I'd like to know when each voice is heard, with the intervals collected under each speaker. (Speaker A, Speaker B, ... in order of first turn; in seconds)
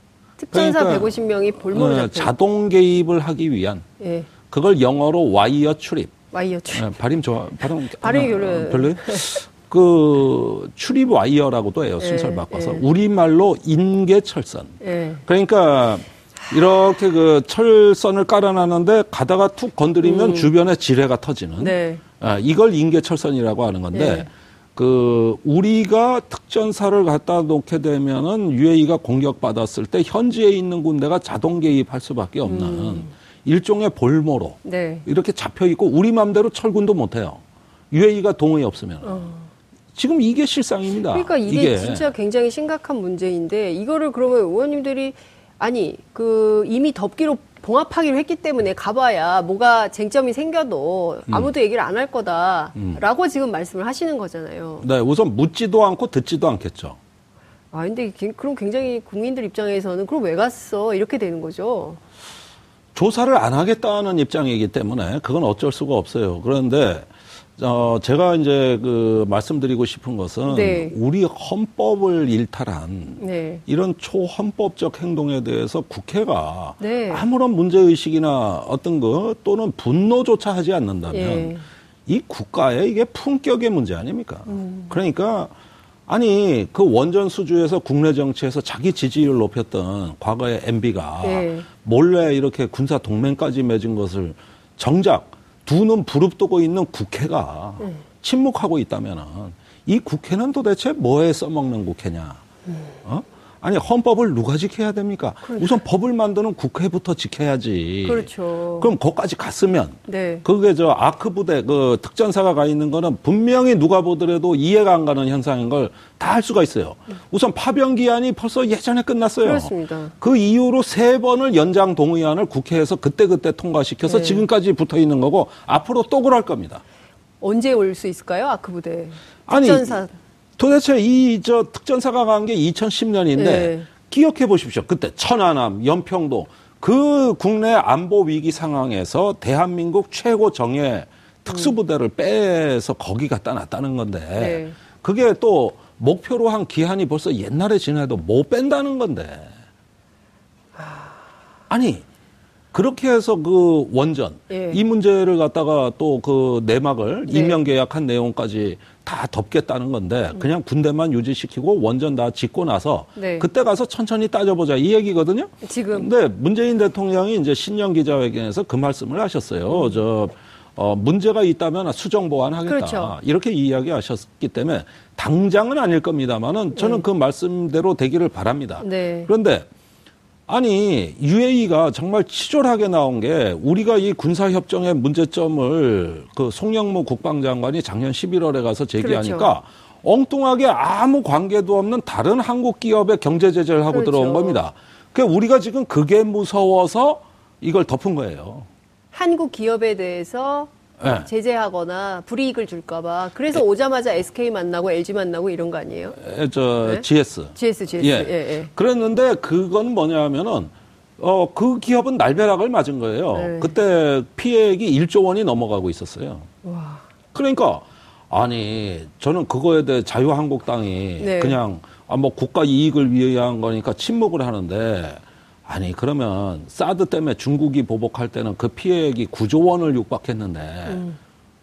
Speaker A: 0.4-2.3, 4.0-4.3, 6.3-6.9, 8.0-9.4, 12.0-12.9, 14.8-15.2, 20.0-20.5, 21.6-22.0, 23.9-24.3, 32.4-33.1, 34.6-35.0, 39.0-39.5, 41.1-54.9, 57.7-62.0, 70.5-70.9, 73.2-73.6, 76.8-77.2, 81.1-81.6, 84.5-84.9, 91.2-91.7, 105.4-105.8, 108.0-108.9, 110.1-110.4, 119.4-120.1, 124.0-124.4, 127.4-130.1, 133.3-133.9, 144.3-144.8, 150.8-151.1, 154.5-154.8, 157.3-157.6, 163.2-163.5, 165.6-166.1, 172.7-173.1, 176.7-177.0, 178.8-179.3, 189.0-189.5, 193.9-194.6, 199.1-206.2, 207.5-208.7, 213.3-213.7, 216.6-217.0, 221.2-221.6, 230.9-231.2
Speaker B: 0.5-1.2, 1.7-3.8, 4.5-6.1, 6.7-39.3, 39.9-42.1, 52.7-53.0, 54.8-57.0, 62.9-81.5, 82.1-85.5, 86.1-102.4, 103.0-126.8, 129.5-130.0, 130.6-149.5, 151.7-152.0, 152.7-179.7, 180.5-198.7, 201.0-201.3, 206.2-216.5, 217.3-231.0